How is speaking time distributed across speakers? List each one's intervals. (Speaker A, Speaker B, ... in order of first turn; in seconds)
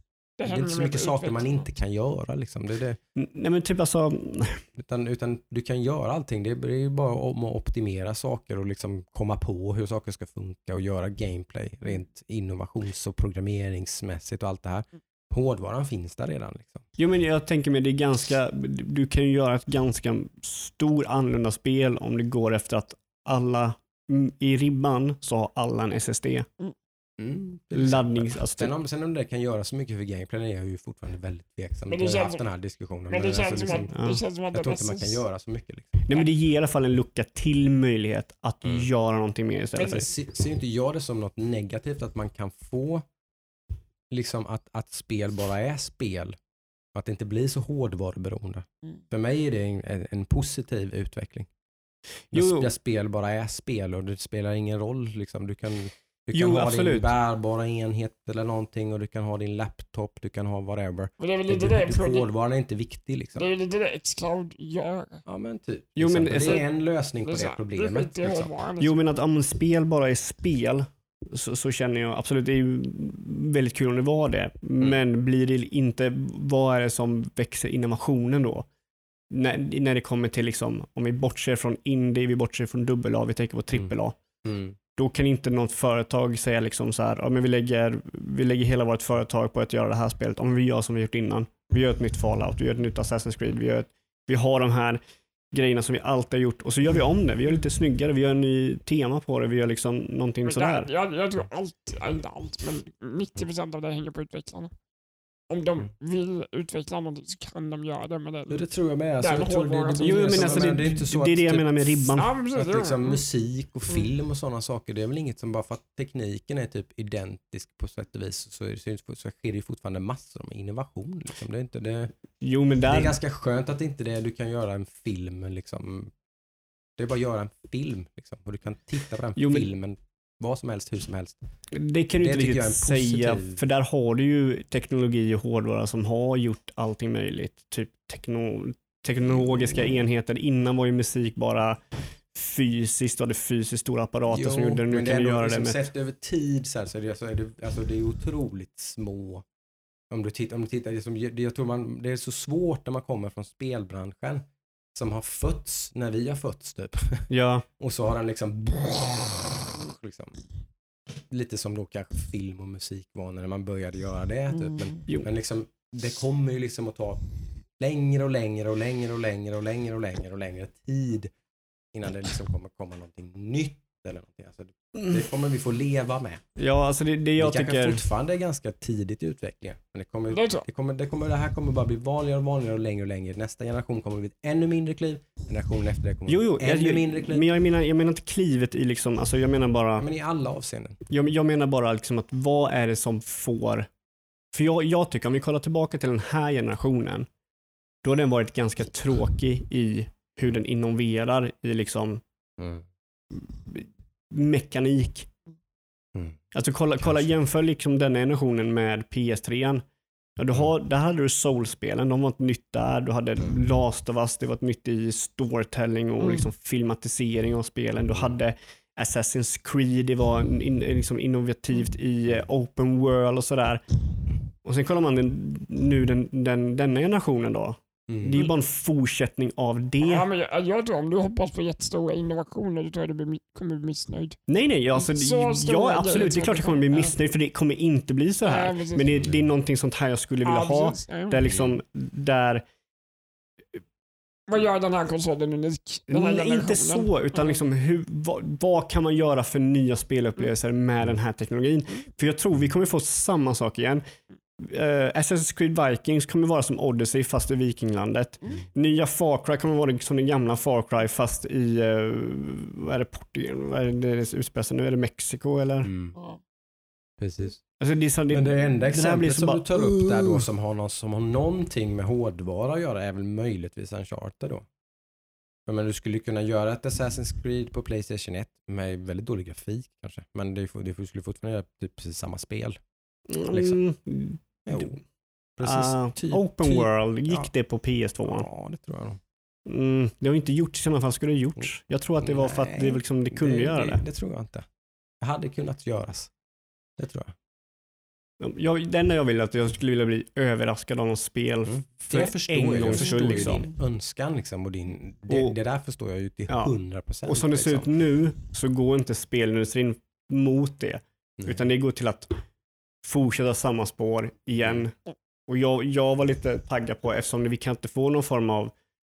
Speaker A: 0.4-1.6, 31.9-32.4, 33.1-35.2, 61.2-62.3, 63.4-65.2, 67.2-69.0, 100.4-104.7, 105.5-108.6, 109.2-110.8, 112.2-113.2, 180.3-180.6, 216.2-216.5, 230.0-234.4, 234.9-237.1, 238.4-239.2, 240.4-241.4, 244.5-247.5
Speaker B: 0.4-3.0, 4.8-16.8, 27.2-33.9, 34.5-36.2, 39.8-43.0, 44.1-46.4, 46.9-51.5, 52.3-63.5, 65.2-68.5, 84.4-84.8, 108.5-122.1, 122.9-126.1, 127.0-131.4, 132.2-133.6, 139.3-140.0, 144.3-149.4, 150.1-157.3, 157.8-160.4, 161.3-167.2, 167.8-171.3, 171.9-176.4, 177.4-187.5, 190.0-191.0, 202.6-202.8, 206.1-206.4, 207.0-207.3, 218.1-218.3, 228.1-228.4, 239.2-239.4, 241.5-241.8, 265.8-266.1, 267.2-267.6, 268.3-274.6, 275.6-282.8, 283.5-283.8, 284.6-285.0, 285.6-287.5, 288.2-289.2, 292.2-294.7, 295.2-296.3, 297.0-297.3, 301.7-307.9, 311.4-311.6
Speaker C: 3.1-4.6, 17.0-26.5, 27.7-28.7, 33.9-34.2, 36.0-40.0, 52.3-52.7, 56.3-57.1, 66.0-66.6, 68.8-78.7, 79.3-84.2, 84.9-95.0, 95.5-100.9, 110.0-112.3, 122.4-123.2, 129.4-129.7, 131.7-145.8, 157.3-157.7, 176.6-178.0, 186.3-190.1, 191.1-193.9, 194.5-197.3, 198.0-202.2, 203.3-205.3, 206.5-209.8, 210.4-223.8, 224.6-230.3, 234.5-242.6, 246.1-254.0, 254.6-265.9, 267.8-270.4, 283.3-284.9, 285.6-288.5, 289.6-294.0, 298.4-303.7, 305.3-305.5, 306.5-306.8, 307.3-312.3, 313.0-314.9, 315.5-318.7